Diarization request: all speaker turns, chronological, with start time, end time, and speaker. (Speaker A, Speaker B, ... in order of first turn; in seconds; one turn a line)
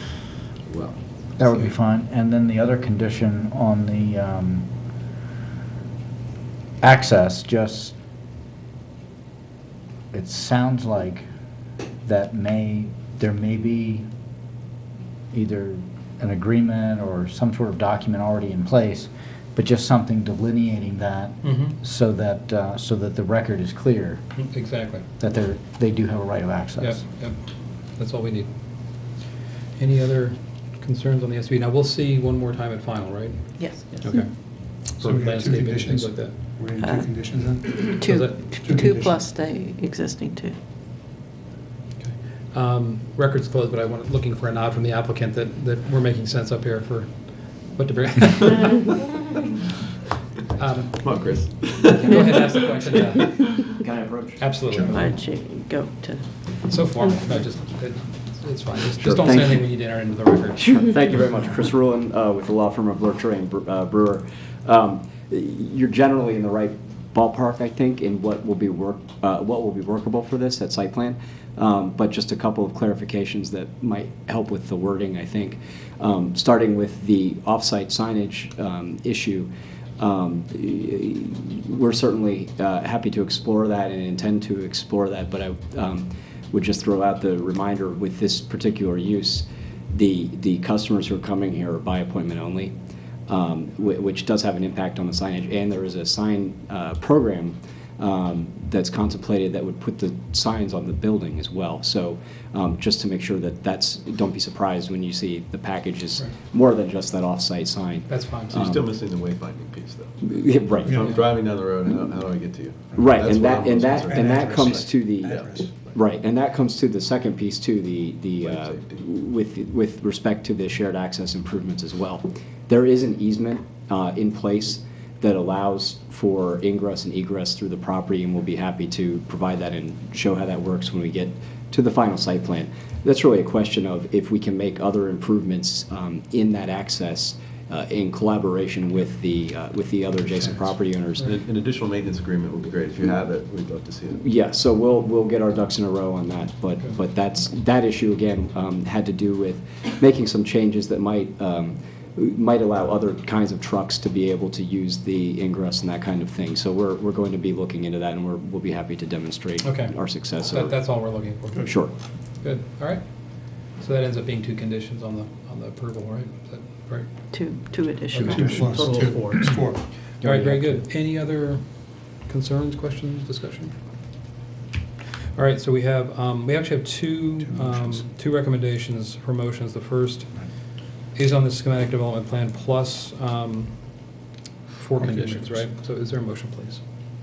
Speaker A: 0.6-1.0
Speaker B: 1.4-4.7
Speaker B: 6.8-7.9
Speaker B: 10.1-11.2
Speaker B: 12.0-14.1
Speaker B: 15.3-24.2
Speaker C: 21.4-21.8
Speaker C: 24.4-25.0
Speaker B: 25.2-27.0
Speaker C: 26.8-27.4
Speaker C: 27.9-28.5
Speaker C: 29.8-36.4
Speaker D: 33.6-34.1
Speaker E: 35.0-38.1
Speaker D: 36.8-40.5
Speaker C: 38.0-38.5
Speaker E: 38.6-39.2
Speaker C: 42.0-48.9
Speaker C: 50.5-53.7
Speaker A: 51.0-52.9
Speaker F: 53.8-54.4
Speaker C: 54.4-55.1
Speaker E: 54.7-55.0
Speaker D: 54.8-56.5
Speaker C: 56.6-60.9
Speaker F: 59.0-59.6
Speaker F: 60.6-92.7
Speaker F: 93.3-108.8
Speaker C: 108.1-108.6
Speaker A: 108.5-116.0
Speaker F: 110.2-111.0
Speaker E: 110.8-111.2
Speaker F: 113.0-141.3
Speaker E: 114.0-115.8
Speaker A: 118.4-119.0
Speaker A: 141.2-144.2
Speaker F: 144.2-160.9
Speaker C: 159.6-161.8
Speaker E: 161.5-161.8
Speaker F: 161.6-161.9
Speaker C: 162.4-167.2
Speaker D: 167.3-169.1
Speaker C: 168.1-171.7
Speaker E: 168.2-169.9
Speaker F: 170.2-170.8
Speaker C: 172.2-173.7
Speaker C: 175.3-180.4
Speaker E: 177.4-178.1
Speaker C: 181.1-183.8
Speaker C: 184.8-186.8
Speaker E: 184.9-185.7